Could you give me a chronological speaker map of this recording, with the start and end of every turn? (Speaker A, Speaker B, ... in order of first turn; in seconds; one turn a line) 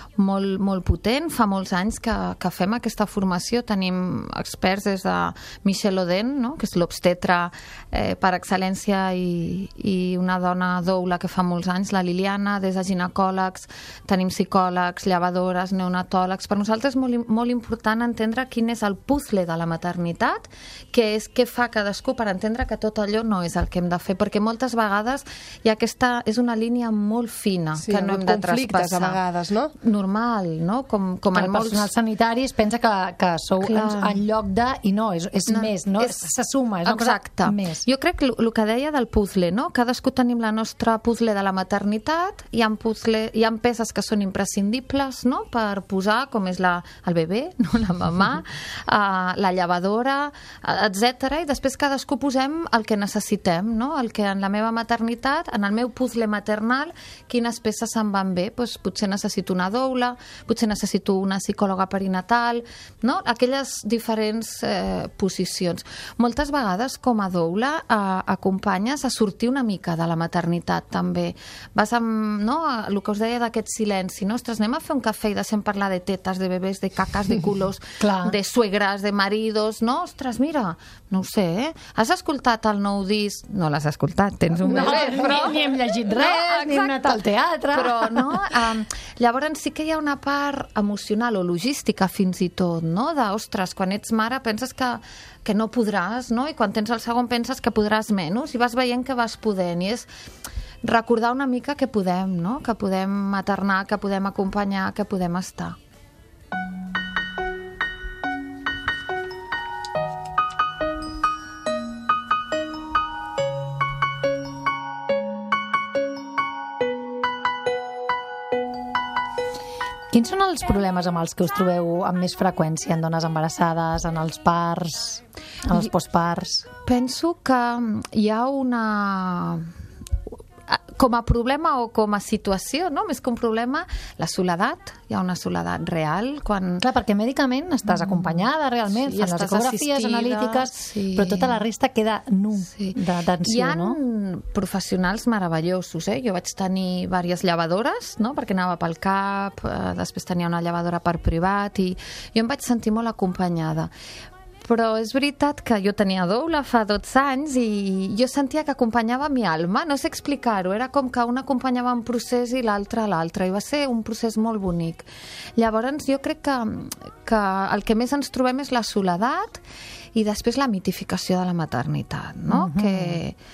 Speaker A: 0.2-29.2
Speaker B: 27.8-29.7
Speaker A: 29.8-31.9
Speaker C: 31.3-37.8
Speaker A: 33.6-34.2
Speaker A: 35.5-36.3
Speaker A: 36.8-87.2
Speaker C: 78.0-78.3
Speaker C: 84.6-88.4
Speaker A: 87.7-100.1
Speaker A: 100.8-105.8
Speaker C: 120.1-126.6
Speaker A: 126.8-129.7
Speaker A: 130.7-136.8
Speaker C: 136.8-144.0
Speaker A: 138.0-141.6
Speaker A: 142.7-153.9
Speaker A: 154.6-169.6
Speaker A: 170.1-173.4
Speaker C: 172.5-173.2